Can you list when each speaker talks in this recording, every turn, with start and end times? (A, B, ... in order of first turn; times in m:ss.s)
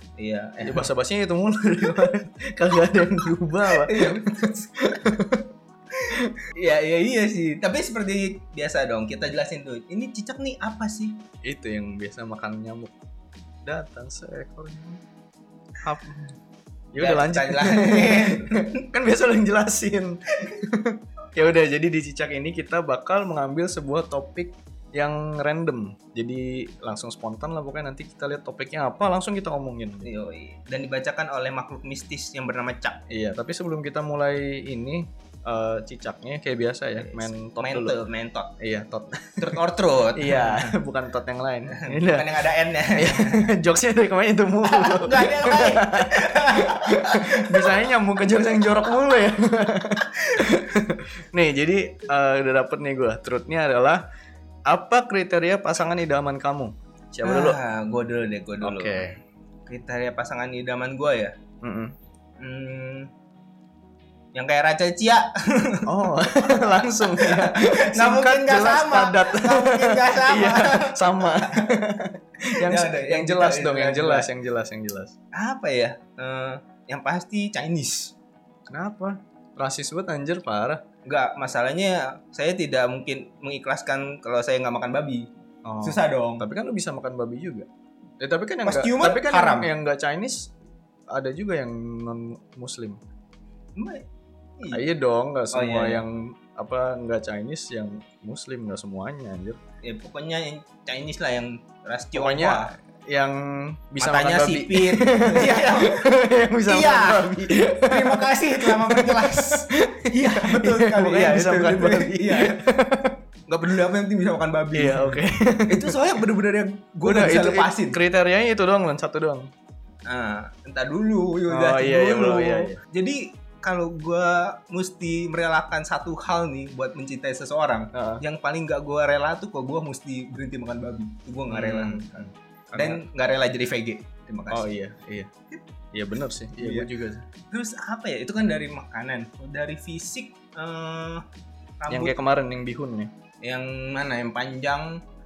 0:00.2-0:00.9 A
0:00.6-0:05.5 B
0:03.2-0:04.8 A
0:06.0-0:11.2 A
0:11.4-0:12.9 B
0:13.6-0:15.0 B
0:15.8-0:16.3 B
0:16.9-0:30.1 B
0:17.0-0:18.7 A
0:30.0-0:33.0 A
0:33.1-0:37.9 B
0:37.0-0:38.5 A
0:38.6-0:39.6 B
0:39.4-0:40.8 A
0:40.2-0:54.0 B
0:41.7-0:43.4 A
0:44.6-0:47.9 A
0:54.7-0:57.6 B
0:57.2-0:59.2 A
0:58.6-0:59.2 B
0:59.7-1:01.3 A
1:01.6-1:01.9 B
1:02.4-1:03.1 A
1:04.3-1:11.8 A
1:05.9-1:15.1 B
1:12.6-1:14.3 A
1:15.4-1:18.2 A
1:18.7-1:20.8 B
1:21.0-1:25.3 A
1:25.6-1:27.7 B
1:25.8-1:26.5 A
1:28.2-1:30.5 B
1:28.6-1:29.7 A
1:31.1-1:33.0 B
1:33.8-1:34.0 A
1:34.6-1:34.8 A
1:34.7-1:39.6 B
1:35.5-1:36.0 A
1:39.8-1:42.7 A
1:42.1-1:53.2 B
1:44.0-1:46.1 A
1:46.6-1:52.6 A
1:53.5-1:58.0 A
1:54.7-1:56.0 B
1:57.0-1:59.5 B
2:00.1-2:14.7 A
2:01.5-2:02.8 B
2:07.9-2:08.2 B
2:11.5-2:13.0 B
2:14.5-2:15.3 B
2:15.9-2:17.2 B
2:16.6-2:16.9 A
2:17.5-2:21.2 A
2:21.8-2:22.2 A
2:21.9-2:23.1 B
2:23.4-2:25.0 A